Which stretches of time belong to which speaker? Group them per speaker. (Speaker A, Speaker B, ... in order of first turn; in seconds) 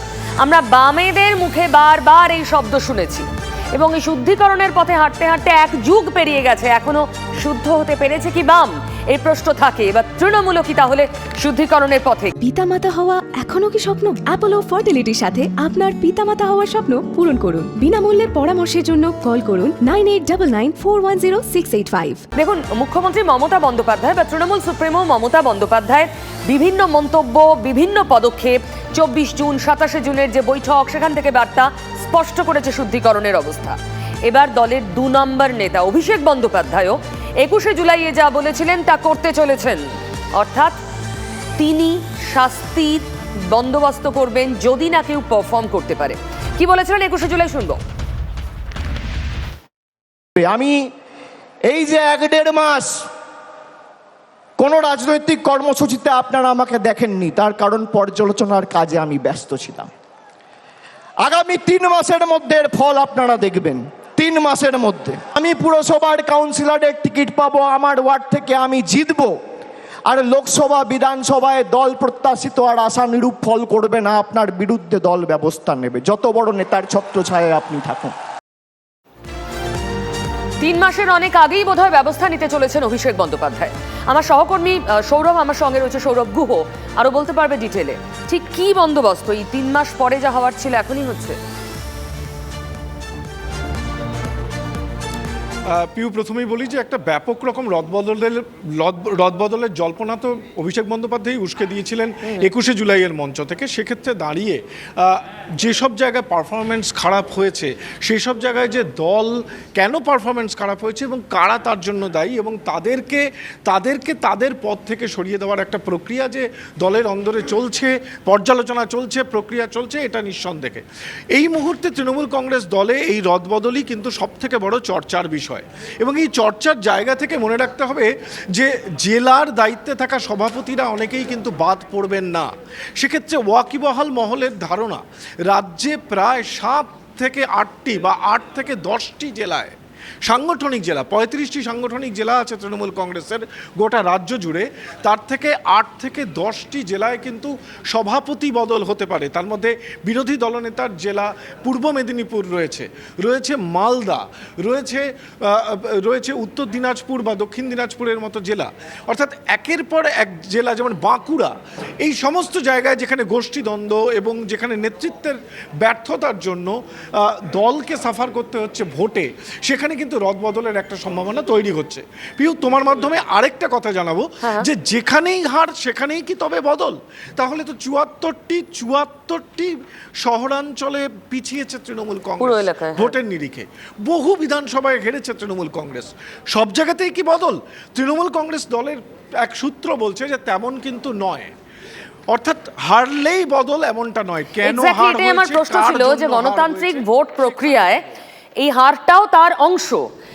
Speaker A: 0.4-12.3, 22.4-39.8, 40.3-40.7, 41.6-47.8, 80.6-91.4, 174.4-174.7, 182.4-183.1, 194.6-198.0, 198.6-200.1
Speaker B: 12.4-22.2
Speaker C: 50.4-50.9, 51.6-53.1, 54.6-59.9, 61.2-69.4, 70.0-78.1
Speaker D: 95.7-191.5, 192.3-198.0